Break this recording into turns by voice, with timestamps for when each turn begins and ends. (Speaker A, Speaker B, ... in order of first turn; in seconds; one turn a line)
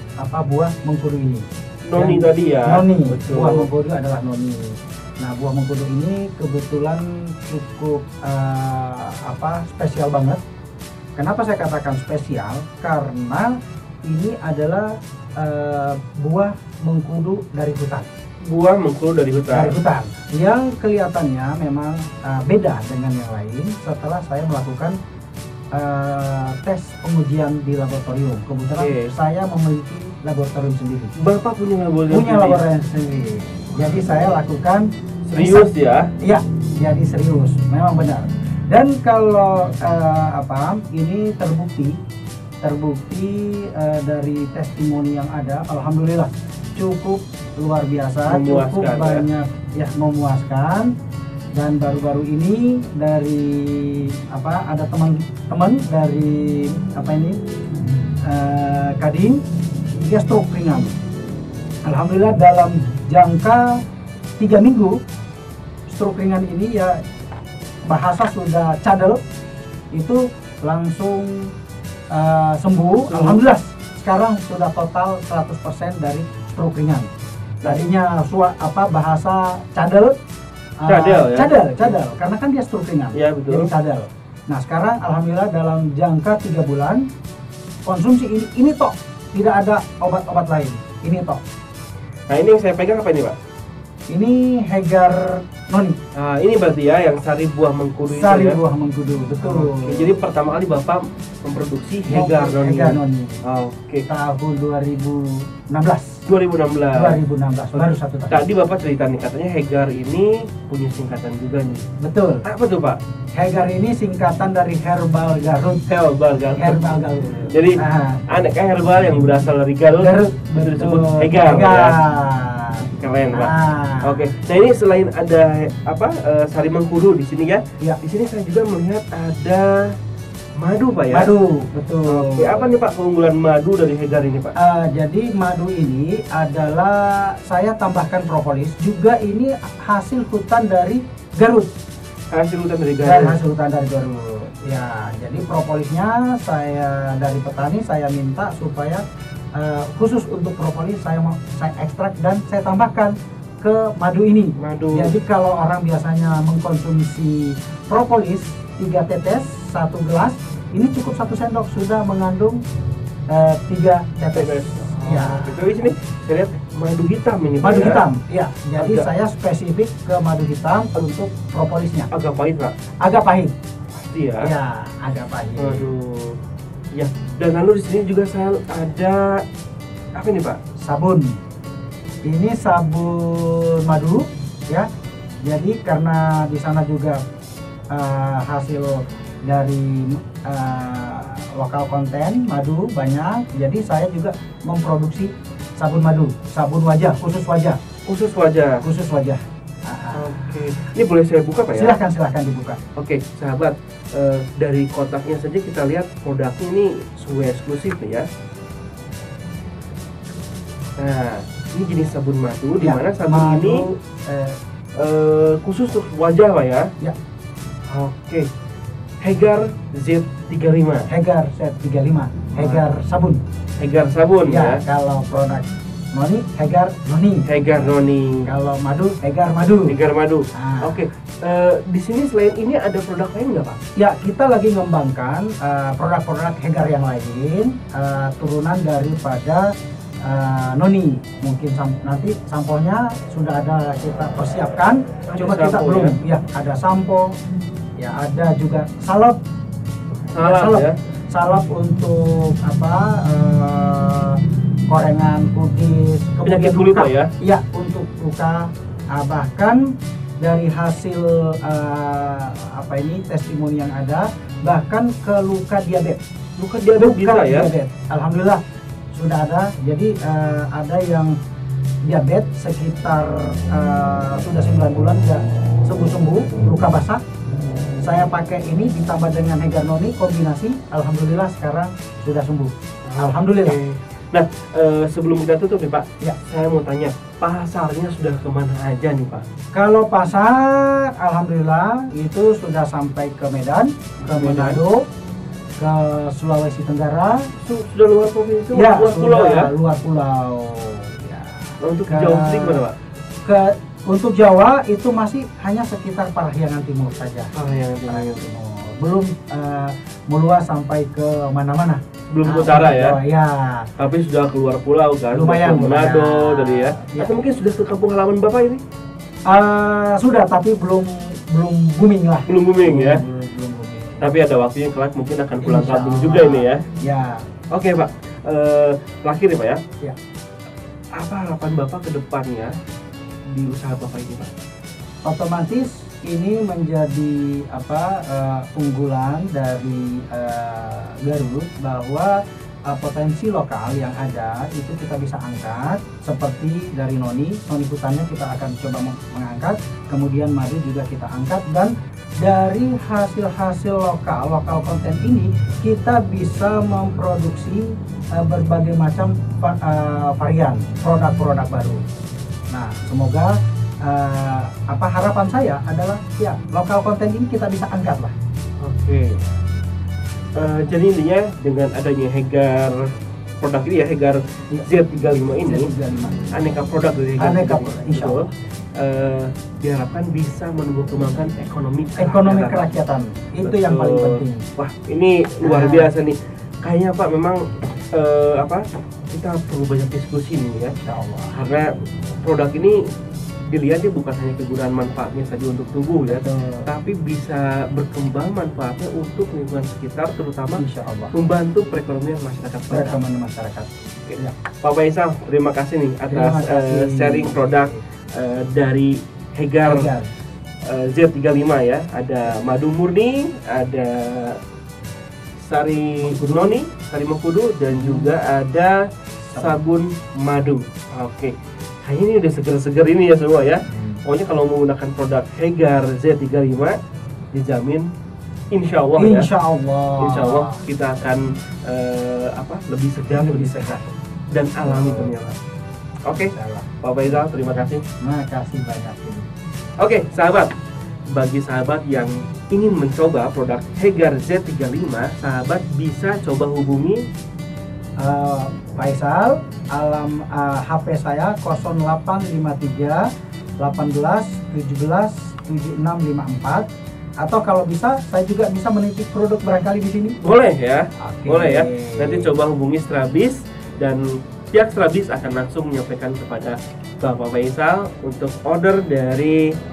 Speaker A: 0.2-10.4
Speaker B: 1.9-3.7
Speaker A: 11.2-13.5
Speaker A: 14.0-18.1
Speaker B: 18.4-19.8
Speaker A: 19.5-25.0
Speaker A: 25.7-31.1
Speaker B: 28.8-29.1
Speaker B: 31.2-32.6
Speaker A: 32.1-42.0
Speaker B: 35.2-36.1
Speaker A: 42.6-50.9
Speaker B: 48.3-49.3
Speaker A: 51.5-57.4
Speaker A: 58.2-59.4
Speaker A: 60.0-60.9
Speaker A: 61.9-63.8
Speaker A: 64.4-65.0
Speaker A: 65.9-67.0
Speaker A: 67.9-69.2
Speaker A: 69.9-71.5
Speaker A: 72.1-77.1
Speaker B: 73.1-73.4
Speaker A: 77.7-80.2
Speaker A: 80.8-87.1
Speaker B: 80.9-82.0
Speaker B: 83.2-83.7
Speaker A: 87.9-91.4
Speaker B: 92.3-93.4
Speaker A: 94.1-96.0
Speaker B: 96.2-98.6
Speaker A: 98.1-100.2
Speaker B: 99.3-104.1
Speaker A: 102.1-103.4
Speaker A: 104.1-106.2
Speaker B: 106.3-107.2
Speaker A: 106.9-108.4
Speaker B: 107.8-111.8
Speaker A: 112.0-112.5
Speaker B: 112.5-113.0
Speaker A: 113.3-115.9
Speaker B: 115.9-117.0
Speaker A: 116.6-118.2
Speaker B: 117.5-122.0
Speaker A: 120.0-124.3
Speaker B: 122.9-129.9
Speaker B: 130.6-131.3
Speaker A: 131.1-132.8
Speaker B: 132.1-134.5
Speaker A: 134.6-141.7
Speaker B: 142.3-143.4
Speaker A: 143.0-149.0
Speaker A: 149.6-162.6
Speaker B: 154.6-155.2
Speaker A: 163.3-165.9
Speaker B: 164.3-168.0
Speaker A: 167.6-172.1
Speaker B: 168.8-169.1
Speaker B: 172.1-172.7
Speaker A: 173.0-173.6
Speaker B: 174.0-174.5
Speaker A: 174.4-175.9
Speaker B: 175.6-176.4
Speaker B: 176.9-179.4
Speaker B: 180.2-180.6
Speaker A: 180.8-181.3
Speaker A: 182.3-184.9
Speaker A: 185.4-187.2
Speaker A: 187.9-197.8
Speaker B: 198.1-198.8
Speaker A: 198.8-200.6
Speaker B: 200.2-202.0
Speaker A: 201.8-202.8
Speaker B: 203.0-208.3
Speaker B: 211.0-213.8
Speaker A: 212.8-214.6
Speaker B: 215.0-216.9
Speaker B: 217.9-218.5
Speaker B: 219.2-221.1
Speaker A: 221.1-223.4
Speaker B: 222.6-222.8
Speaker B: 223.8-224.8
Speaker A: 224.5-227.9
Speaker B: 227.5-228.5
Speaker A: 228.5-230.0
Speaker B: 229.9-233.8
Speaker A: 230.6-231.0
Speaker A: 234.0-239.7
Speaker A: 240.2-247.3
Speaker B: 245.3-246.2
Speaker A: 248.0-249.4
Speaker B: 250.3-250.9
Speaker A: 250.4-259.9
Speaker B: 256.4-257.3
Speaker A: 260.4-266.2
Speaker B: 266.6-267.7
Speaker A: 267.0-268.6
Speaker A: 269.1-271.4
Speaker A: 272.1-277.2
Speaker A: 278.0-283.8
Speaker B: 283.1-289.5
Speaker A: 289.7-295.0
Speaker B: 294.2-294.8
Speaker A: 295.8-297.6
Speaker B: 297.6-299.7
Speaker A: 298.7-302.8
Speaker B: 301.8-303.0
Speaker A: 303.4-307.6
Speaker B: 307.5-308.5
Speaker A: 308.1-313.9
Speaker B: 312.3-313.2
Speaker B: 314.0-318.8
Speaker A: 315.3-317.4
Speaker A: 319.5-324.3
Speaker B: 322.5-323.2
Speaker B: 324.2-326.8
Speaker A: 325.6-327.4
Speaker B: 327.7-329.8
Speaker B: 331.2-332.7
Speaker B: 333.5-334.5
Speaker A: 335.2-342.4
Speaker A: 342.9-362.0
Speaker A: 362.7-368.4
Speaker B: 368.8-369.6
Speaker B: 370.6-375.9
Speaker A: 375.6-376.4
Speaker B: 376.5-382.9
Speaker A: 377.4-378.5
Speaker A: 382.2-384.6
Speaker B: 383.6-387.6
Speaker A: 385.6-386.1
Speaker B: 388.1-391.0
Speaker A: 391.0-391.6
Speaker B: 391.5-393.0
Speaker B: 393.7-403.2
Speaker A: 396.3-396.9
Speaker A: 400.8-401.3
Speaker A: 402.9-404.6
Speaker B: 404.3-410.1
Speaker A: 406.3-408.0
Speaker A: 409.8-410.3
Speaker B: 410.9-414.6
Speaker B: 415.6-419.0
Speaker A: 416.2-416.8
Speaker A: 417.9-418.4
Speaker A: 419.5-419.8
Speaker B: 419.5-427.0
Speaker A: 423.9-424.2
Speaker B: 427.5-428.1
Speaker B: 428.7-429.5
Speaker A: 429.2-430.8
Speaker B: 430.2-434.0
Speaker A: 433.3-434.1
Speaker B: 434.5-435.6
Speaker A: 434.8-435.3
Speaker A: 436.3-436.9
Speaker B: 437.0-438.0
Speaker A: 438.2-439.5
Speaker B: 440.0-440.7
Speaker B: 441.3-447.2
Speaker A: 448.2-453.3
Speaker A: 453.8-456.9
Speaker A: 457.4-460.4
Speaker B: 460.4-469.6
Speaker A: 461.2-462.5